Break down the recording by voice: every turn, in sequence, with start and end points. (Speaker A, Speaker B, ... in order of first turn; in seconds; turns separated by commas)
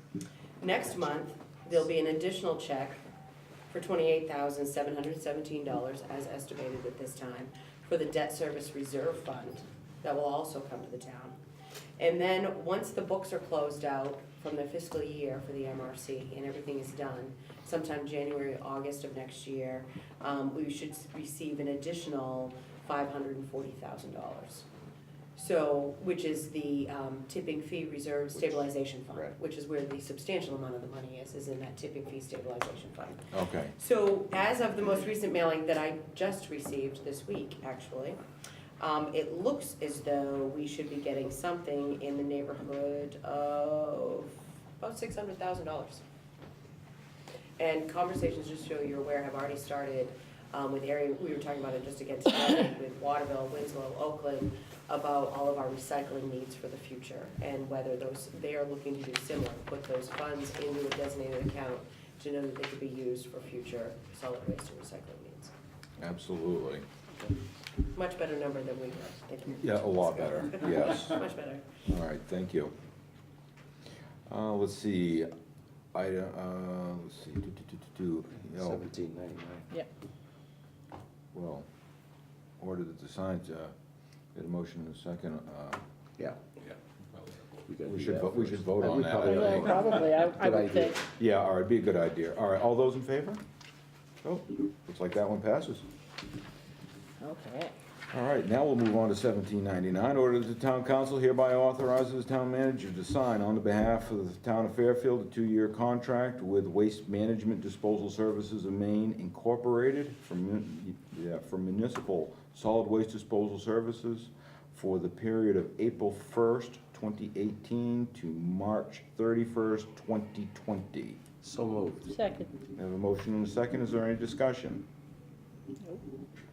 Speaker A: 0.6-3.0, Speaker A: 3.7-11.4, Speaker A: 12.0-24.6, Speaker A: 25.3-38.2, Speaker B: 28.4-29.4, Speaker C: 33.3-33.7, Speaker A: 38.8-46.0, Speaker A: 47.6-65.5, Speaker C: 66.0-66.9, Speaker A: 67.9-71.7, Speaker C: 69.5-71.2, Speaker C: 71.8-72.7, Speaker C: 74.3-75.3, Speaker C: 75.9-78.8, Speaker B: 78.5-79.7, Speaker C: 81.3-81.7, Speaker C: 82.6-83.7, Speaker C: 84.3-85.8, Speaker B: 87.7-91.1, Speaker C: 87.8-89.8, Speaker D: 89.2-91.0, Speaker C: 91.1-93.4, Speaker C: 94.2-95.8, Speaker D: 97.2-97.7, Speaker C: 98.1-121.2, Speaker B: 121.4-122.1, Speaker D: 122.1-122.5, Speaker C: 122.7-124.8